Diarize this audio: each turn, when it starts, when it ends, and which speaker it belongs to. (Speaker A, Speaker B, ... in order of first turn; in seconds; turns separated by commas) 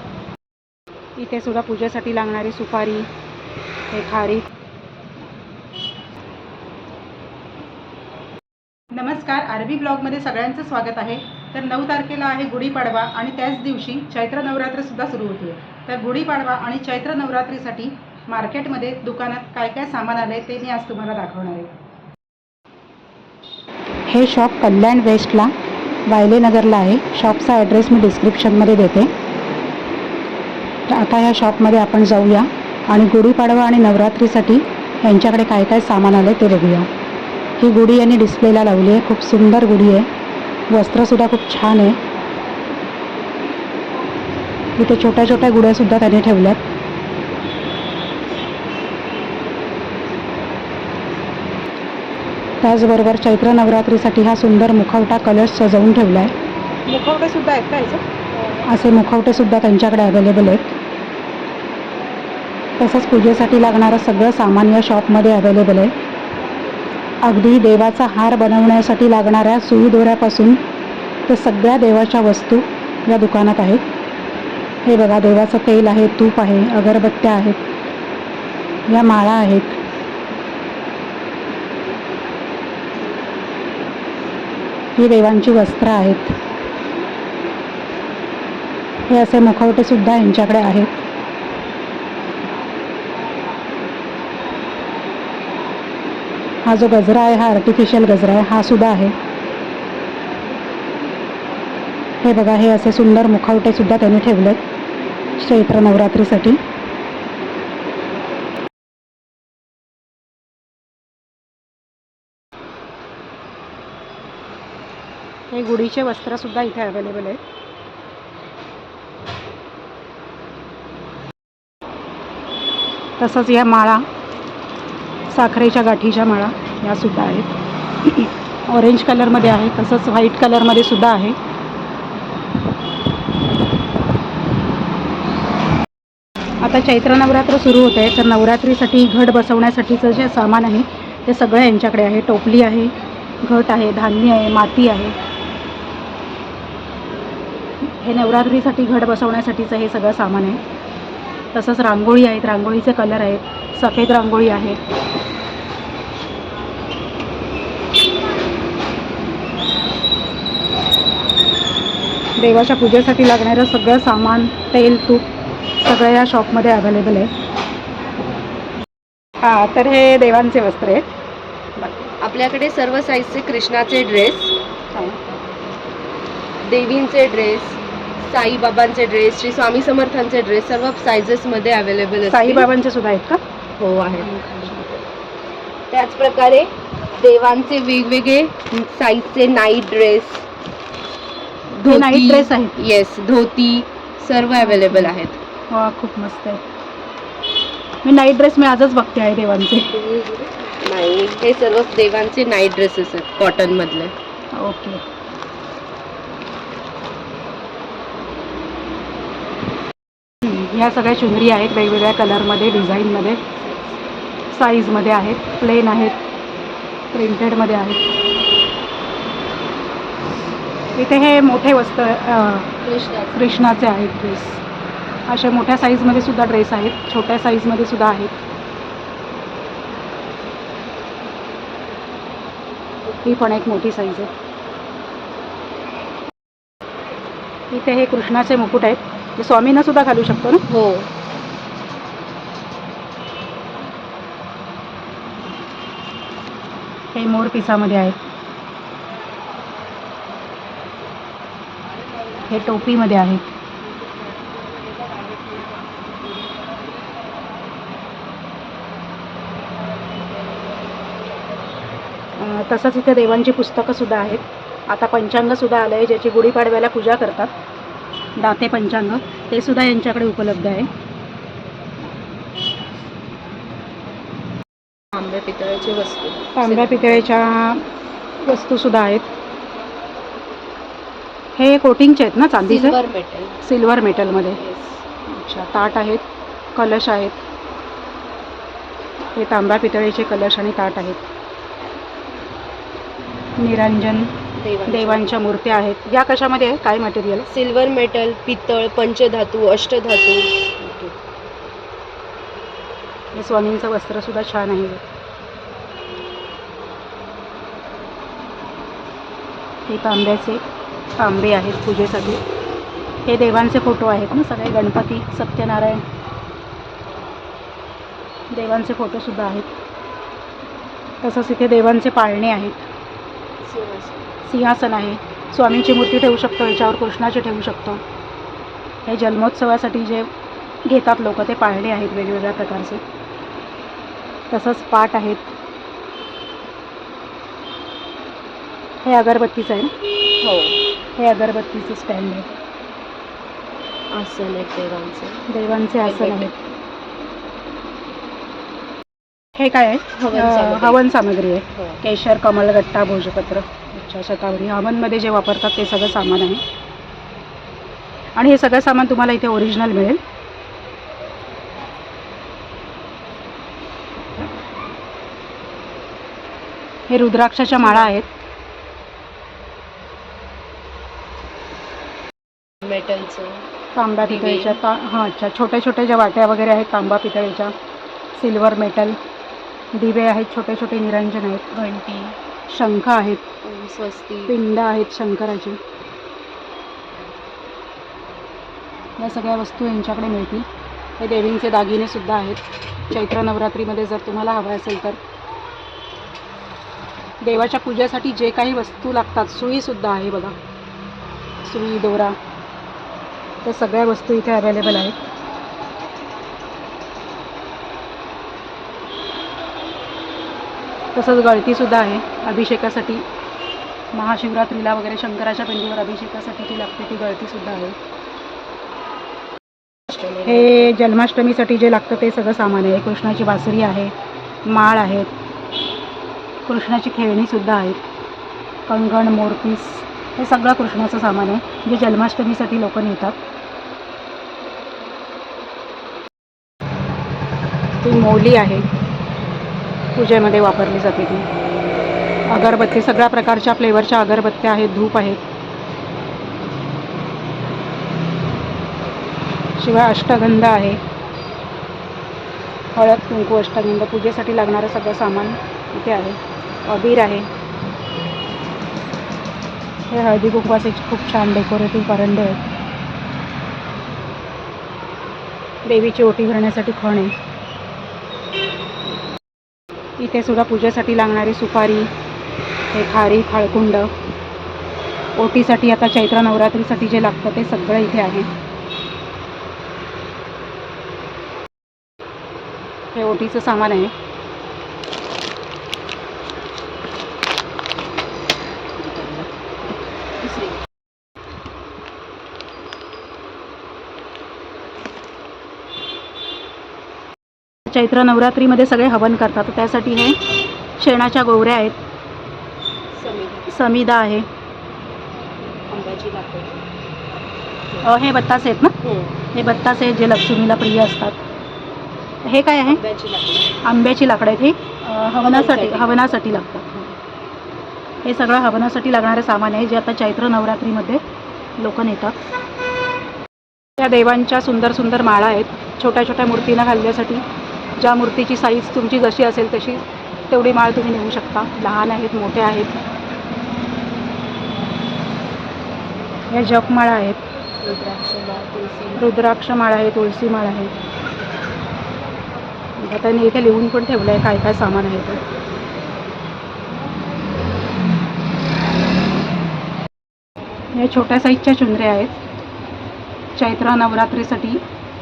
Speaker A: 1.1-3.1, Speaker A: 3.9-4.4, Speaker A: 8.9-21.7, Speaker A: 24.1-25.5, Speaker A: 26.1-29.1, Speaker A: 30.9-36.9, Speaker A: 37.6-40.1, Speaker A: 40.7-42.0, Speaker A: 44.8-46.6, Speaker A: 52.6-56.3, Speaker A: 56.9-58.0, Speaker A: 58.6-60.7, Speaker A: 62.8-65.9, Speaker A: 67.2-70.6, Speaker A: 71.3-73.8, Speaker A: 74.8-77.6, Speaker A: 78.9-79.8, Speaker A: 85.0-86.3, Speaker A: 89.1-91.0, Speaker A: 96.6-99.1, Speaker A: 102.2-104.6, Speaker A: 105.4-106.6, Speaker A: 115.5-117.4, Speaker A: 123.2-124.0, Speaker A: 125.3-131.3, Speaker A: 136.6-142.9, Speaker A: 143.4-145.1, Speaker A: 147.8-150.6, Speaker A: 151.5-154.8, Speaker A: 162.4-165.2, Speaker A: 165.8-167.3, Speaker A: 169.4-171.1, Speaker B: 172.2-174.5, Speaker A: 174.9-175.2, Speaker B: 176.6-182.7, Speaker A: 182.3-183.4, Speaker B: 183.8-184.9, Speaker A: 184.2-184.8, Speaker B: 185.9-190.4, Speaker B: 191.7-195.4, Speaker A: 191.8-192.7, Speaker A: 194.6-195.1, Speaker A: 195.7-196.6, Speaker A: 198.0-199.9, Speaker B: 199.9-204.1, Speaker A: 204.5-205.0, Speaker A: 210.4-213.4, Speaker A: 214.5-216.2, Speaker A: 217.1-218.0, Speaker A: 220.9-222.7, Speaker B: 222.8-223.6, Speaker A: 223.3-224.6, Speaker A: 225.3-228.3, Speaker A: 233.2-234.3, Speaker A: 237.7-240.6, Speaker B: 240.7-241.1, Speaker A: 247.1-248.2, Speaker A: 252.5-253.5, Speaker A: 262.4-267.5, Speaker A: 268.4-270.9, Speaker B: 275.1-277.3, Speaker A: 276.6-277.8, Speaker A: 278.4-279.2, Speaker A: 281.6-282.9, Speaker B: 282.6-283.6, Speaker A: 283.6-284.6, Speaker B: 284.4-285.0, Speaker A: 285.3-286.2, Speaker A: 286.7-287.4, Speaker A: 289.3-291.2, Speaker A: 293.6-294.3, Speaker B: 294.6-295.6, Speaker A: 294.9-297.5, Speaker B: 297.5-301.1, Speaker A: 303.3-305.0, Speaker A: 309.9-310.6, Speaker A: 311.2-312.4, Speaker A: 313.2-316.0, Speaker A: 318.5-319.7, Speaker A: 321.2-322.9, Speaker B: 323.6-324.3, Speaker A: 324.4-328.0, Speaker A: 329.1-330.3, Speaker A: 330.9-333.0, Speaker A: 334.5-335.4, Speaker A: 339.0-339.9, Speaker B: 340.4-340.8, Speaker A: 341.2-342.5, Speaker B: 344.1-345.4, Speaker A: 345.5-346.5, Speaker B: 346.0-346.5, Speaker A: 349.6-356.6, Speaker B: 350.1-351.0, Speaker A: 358.4-360.2, Speaker A: 367.1-368.3, Speaker B: 367.7-368.1, Speaker B: 372.8-373.6, Speaker A: 373.9-377.7, Speaker B: 374.2-374.8, Speaker A: 378.4-379.1, Speaker A: 379.9-382.1, Speaker B: 381.9-382.3, Speaker A: 382.7-383.4, Speaker B: 383.6-384.5, Speaker A: 384.5-385.8, Speaker A: 389.2-390.6, Speaker A: 391.2-395.2, Speaker A: 397.4-400.5, Speaker A: 401.6-402.4, Speaker A: 403.6-405.1, Speaker A: 411.1-413.2, Speaker A: 414.1-417.9, Speaker B: 420.1-420.9, Speaker A: 420.4-424.1, Speaker A: 424.6-425.3, Speaker A: 426.6-428.0, Speaker A: 428.9-433.4, Speaker A: 438.0-438.8, Speaker A: 440.1-441.4, Speaker A: 442.5-445.4, Speaker A: 449.8-451.0, Speaker A: 452.9-457.5, Speaker A: 460.1-462.6, Speaker A: 465.8-467.3, Speaker A: 470.2-472.1, Speaker A: 472.9-474.1, Speaker A: 475.4-478.5, Speaker A: 483.1-484.1, Speaker B: 489.1-489.4, Speaker B: 490.4-490.8, Speaker A: 497.9-500.4, Speaker A: 501.0-502.0, Speaker B: 503.1-503.7, Speaker A: 503.7-504.4, Speaker B: 505.9-506.8, Speaker A: 508.0-508.9, Speaker B: 509.0-509.4, Speaker A: 509.5-511.4, Speaker A: 512.4-513.0, Speaker B: 512.9-513.8, Speaker A: 513.8-517.1, Speaker B: 515.4-516.3, Speaker A: 518.2-521.2, Speaker A: 521.8-522.3, Speaker A: 524.0-527.4, Speaker A: 528.0-532.9, Speaker A: 536.5-537.4, Speaker B: 537.8-539.3, Speaker A: 539.1-540.9, Speaker A: 543.0-545.4, Speaker A: 550.9-552.4, Speaker A: 553.6-554.8